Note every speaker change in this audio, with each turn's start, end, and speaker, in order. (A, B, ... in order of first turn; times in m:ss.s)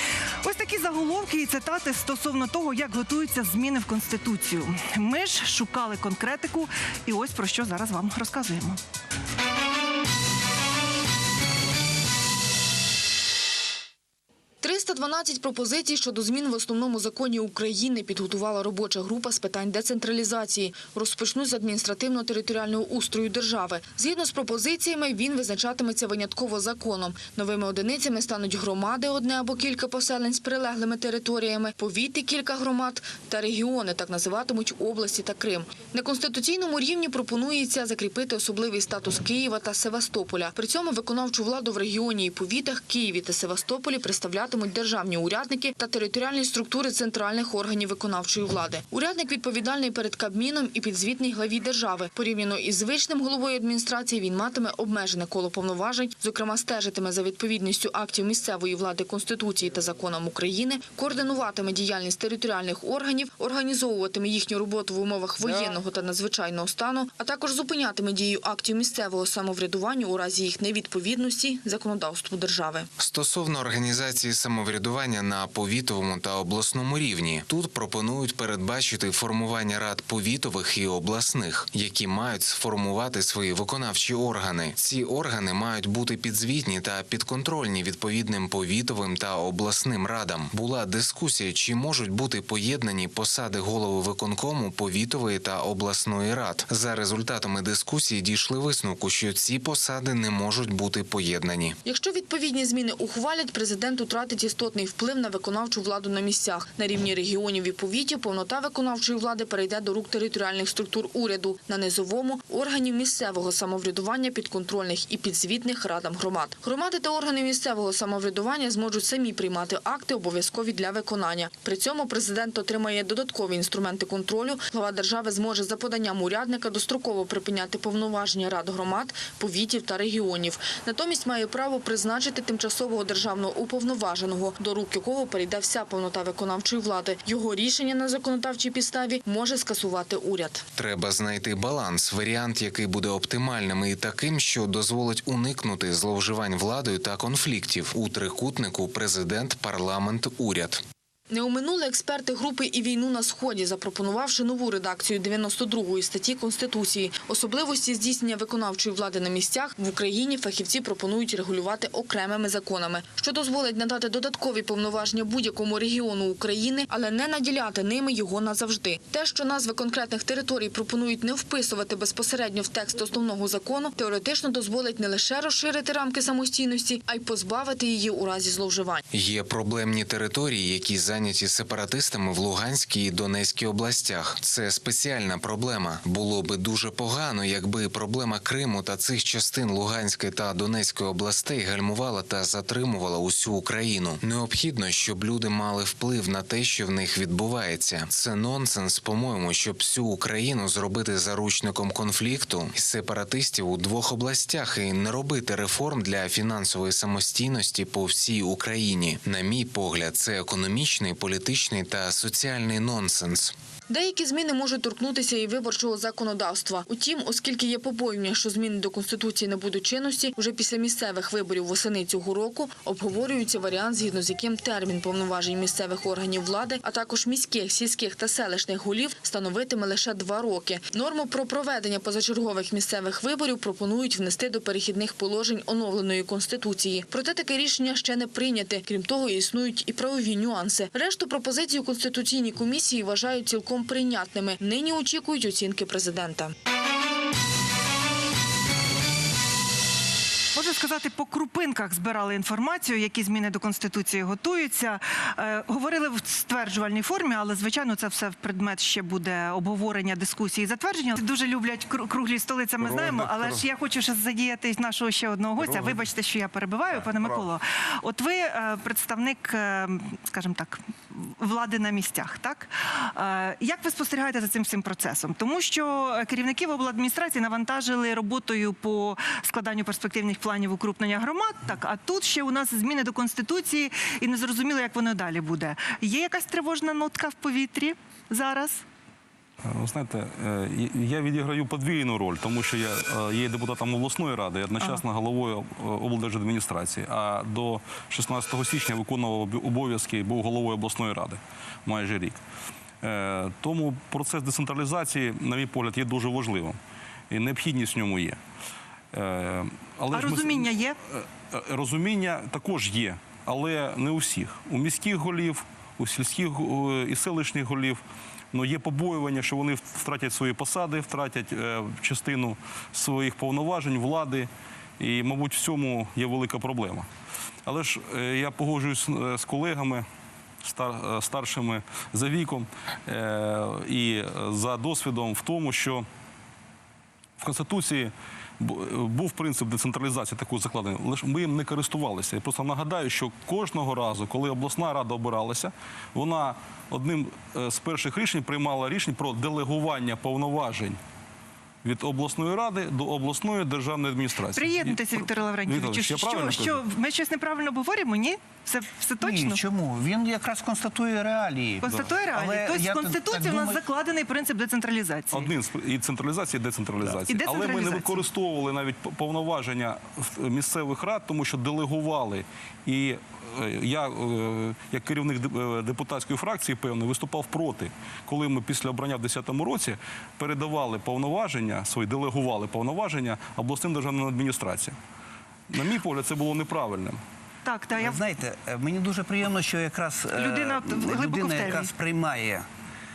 0:00.4-0:08.8 A
0:14.6-1:12.9 B
1:13.0-1:41.8 C
1:41.8-2:20.6 B
2:20.8-2:30.8 C
2:31.3-2:59.0 B
2:59.1-3:33.6 C
3:33.9-4:06.5 B
4:10.5-4:48.8 A
4:22.8-4:23.6 D
4:25.6-4:26.0 D
4:27.0-4:27.4 D
4:49.6-5:02.4 D
5:03.0-5:06.8 D
5:07.3-5:08.4 D
5:09.1-5:18.0 D
5:10.1-5:11.0 A
5:18.5-5:27.1 D
5:27.7-5:30.1 D
5:30.6-5:36.1 D
5:37.4-5:51.0 D
5:51.8-5:56.8 D
5:54.5-5:59.6 A
5:59.2-6:03.8 E
6:01.8-6:05.5 A
6:05.3-6:24.9 D
6:07.3-6:08.2 A
6:25.7-6:27.2 D
6:27.6-6:28.2 A
6:28.0-6:32.6 E
6:30.3-6:31.9 A